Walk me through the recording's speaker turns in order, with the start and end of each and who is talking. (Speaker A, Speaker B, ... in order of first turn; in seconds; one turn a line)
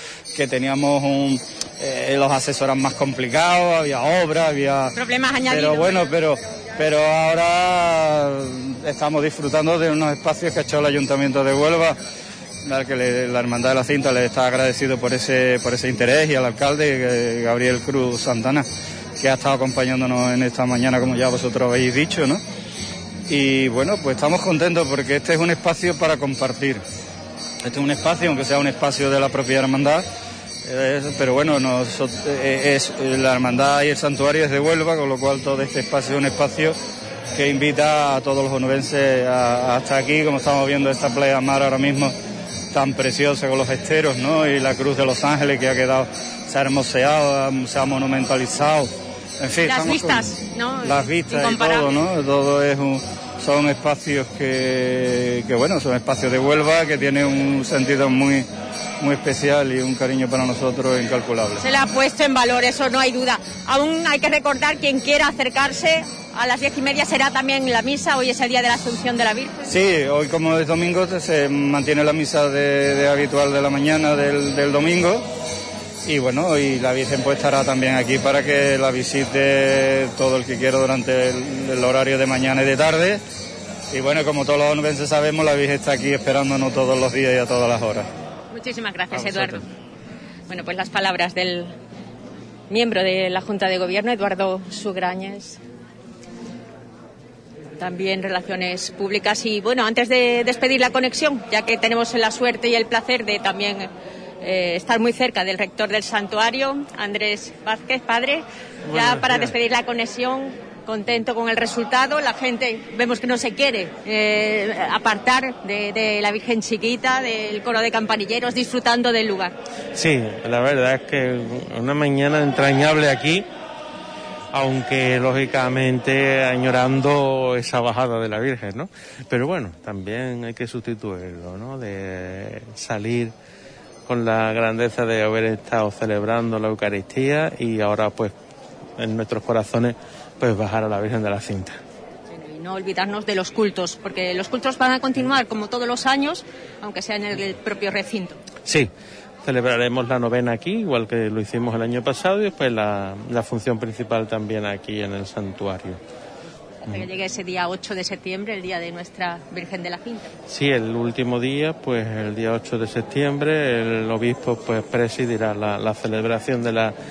Speaker A: 0.3-4.9
Speaker B: 4.9-6.0
Speaker A: 5.5-12.0
Speaker A: 12.6-18.7
Speaker A: 19.2-22.4
Speaker A: 23.3-26.8
Speaker A: 27.6-30.1
Speaker A: 30.6-36.8
Speaker A: 37.4-42.1
Speaker A: 42.7-50.3
Speaker B: 49.6-52.0
Speaker A: 50.8-58.5
Speaker A: 59.0-61.6
Speaker B: 61.6-69.8
Speaker A: 69.7-75.2
Speaker A: 76.0-83.2
Speaker A: 83.9-88.1
Speaker B: 88.5-89.7
Speaker B: 90.5-91.7
Speaker B: 92.7-95.6
Speaker B: 97.8-103.9
Speaker B: 104.4-119.6
Speaker C: 108.9-109.5
Speaker C: 120.0-123.5
Speaker C: 124.5-133.3
Speaker C: 134.1-138.3
Speaker C: 139.0-141.8
Speaker B: 142.3-148.4
Speaker C: 148.7-148.9
Speaker C: 149.4-156.0
Speaker B: 156.8-160.3
Speaker C: 160.5-166.9